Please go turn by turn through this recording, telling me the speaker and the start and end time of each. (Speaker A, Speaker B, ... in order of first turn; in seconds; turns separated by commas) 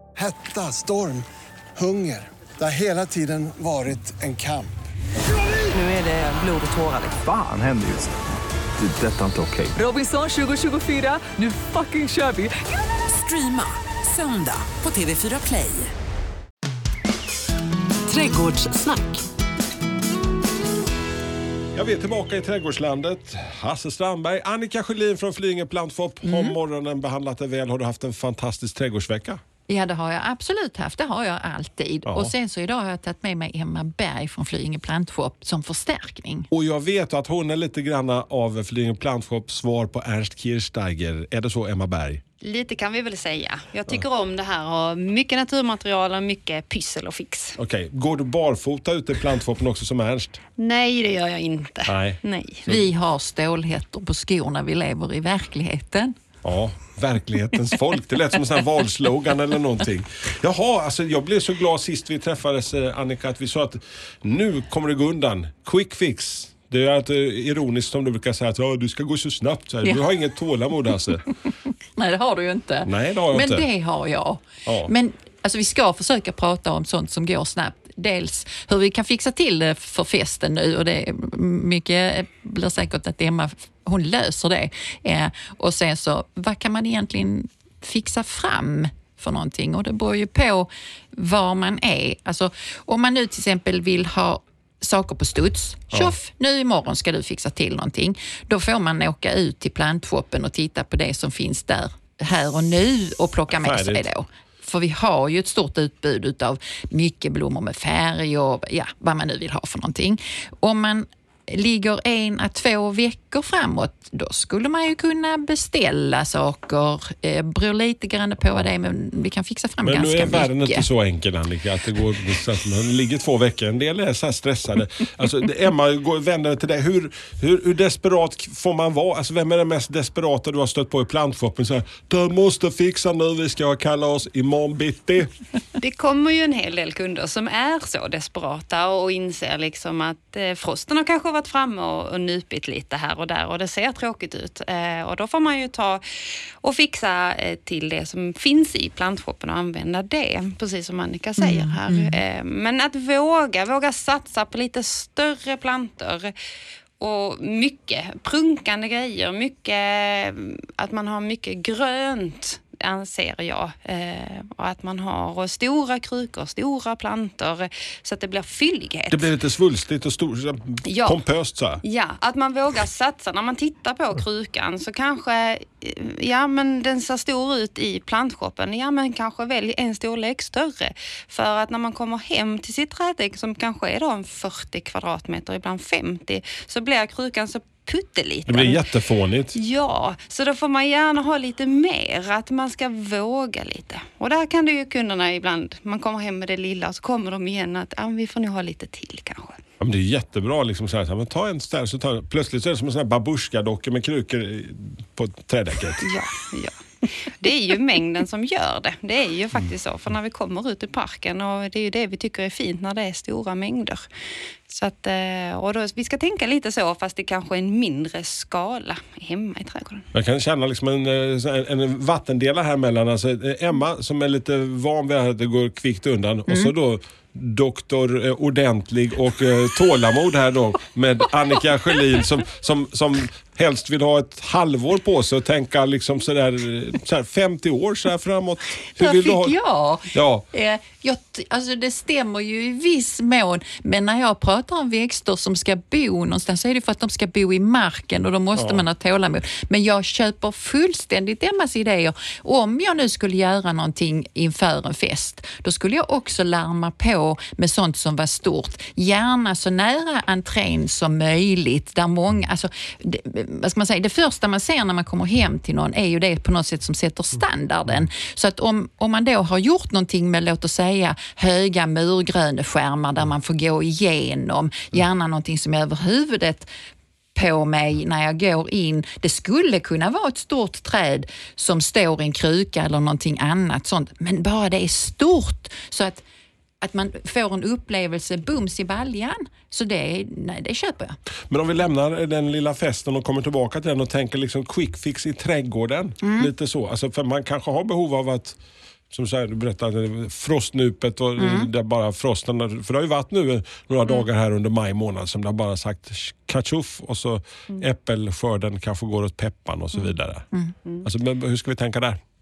Speaker A: 0.1-1.2, Speaker A: 1.8-4.7, Speaker B: 5.7-7.2, Speaker C: 7.0-8.1, Speaker C: 8.8-9.8, Speaker B: 9.7-12.5, Speaker B: 13.1-15.9, Speaker B: 18.1-19.2, Speaker D: 21.7-29.4, Speaker E: 26.2-26.5, Speaker E: 29.7-36.5, Speaker D: 32.0-32.3, Speaker D: 36.5-42.2, Speaker F: 42.4-47.6, Speaker D: 47.6-50.4, Speaker F: 50.6-52.6, Speaker D: 51.9-52.9, Speaker E: 52.7-56.1, Speaker D: 56.4-71.2, Speaker E: 72.0-120.9, Speaker D: 72.8-73.7, Speaker D: 74.6-74.9, Speaker D: 103.5-104.1, Speaker D: 119.8-135.3, Speaker F: 135.8-146.0, Speaker F: 146.6-156.3, Speaker E: 151.4-152.2, Speaker F: 157.0-169.3, Speaker D: 169.1-171.8, Speaker F: 170.8-171.2, Speaker F: 171.8-188.8, Speaker D: 188.4-189.6, Speaker F: 189.5-199.6, Speaker D: 199.8-206.1, Speaker F: 206.0-206.8, Speaker F: 207.4-214.1, Speaker F: 214.7-220.1, Speaker D: 220.1-239.5, Speaker E: 226.5-226.7, Speaker E: 238.9-276.7, Speaker D: 240.1-240.4, Speaker D: 248.5-248.8, Speaker E: 277.3-286.2, Speaker E: 286.8-291.2, Speaker D: 291.5-298.6, Speaker E: 296.2-296.5, Speaker D: 299.1-310.5, Speaker E: 301.4-301.7, Speaker D: 311.0-312.2